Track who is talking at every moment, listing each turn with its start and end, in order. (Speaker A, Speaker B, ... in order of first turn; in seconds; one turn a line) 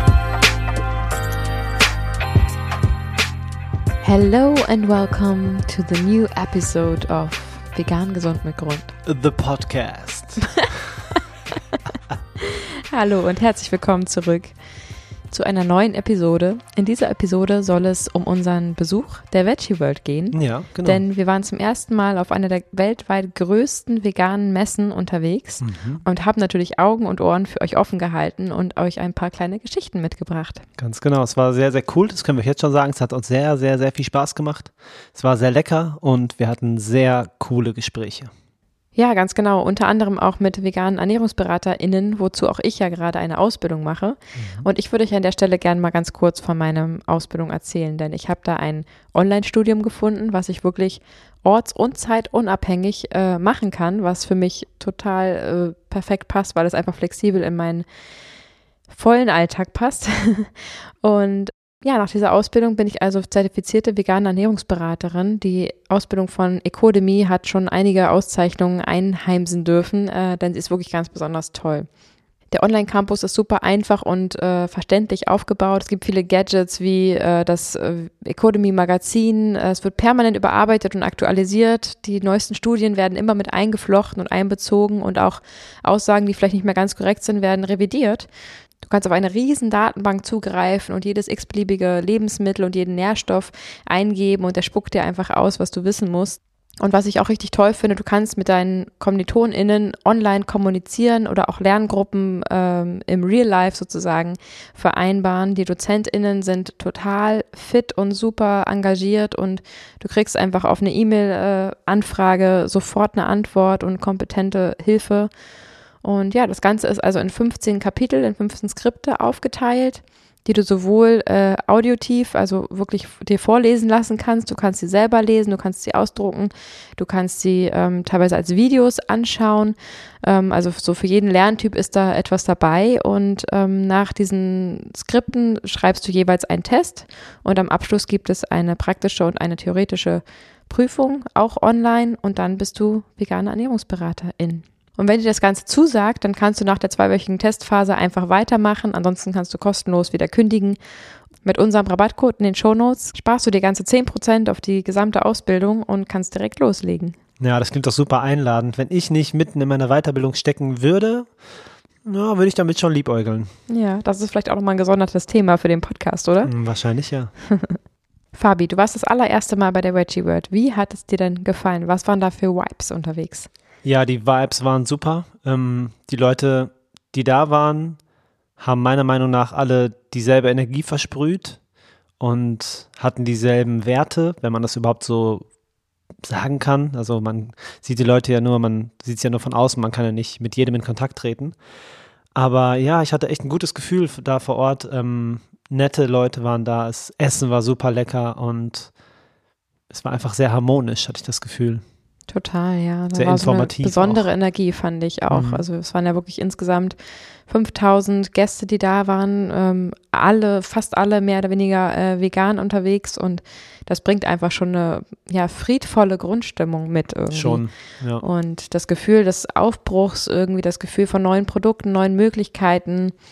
Speaker A: 4.0-8.9
Speaker B: 9.1-10.7
Speaker A: 10.5-11.2
Speaker A: 12.4-14.5
Speaker A: 15.3-30.6
Speaker B: 20.3-21.0
Speaker B: 25.6-26.0
Speaker B: 30.8-38.3
Speaker A: 38.9-57.9
Speaker B: 44.4-44.7
Speaker A: 58.9-71.9
Speaker A: 72.5-88.3
Speaker A: 88.8-115.3
Speaker A: 116.0-150.8
Speaker A: 151.4-157.2
Speaker B: 157.4-161.4
Speaker B: 162.0-163.5
Speaker A: 163.7-166.5
Speaker B: 166.4-167.3
Speaker A: 167.5-167.8
Speaker A: 168.3-173.5
Speaker B: 173.8-178.0
Speaker B: 178.6-181.6
Speaker B: 182.2-185.5
Speaker B: 186.2-191.6
Speaker B: 192.3-198.9
Speaker B: 199.9-201.8
Speaker A: 202.3-223.2
Speaker B: 203.1-204.2
Speaker B: 205.3-205.6
Speaker B: 217.3-218.2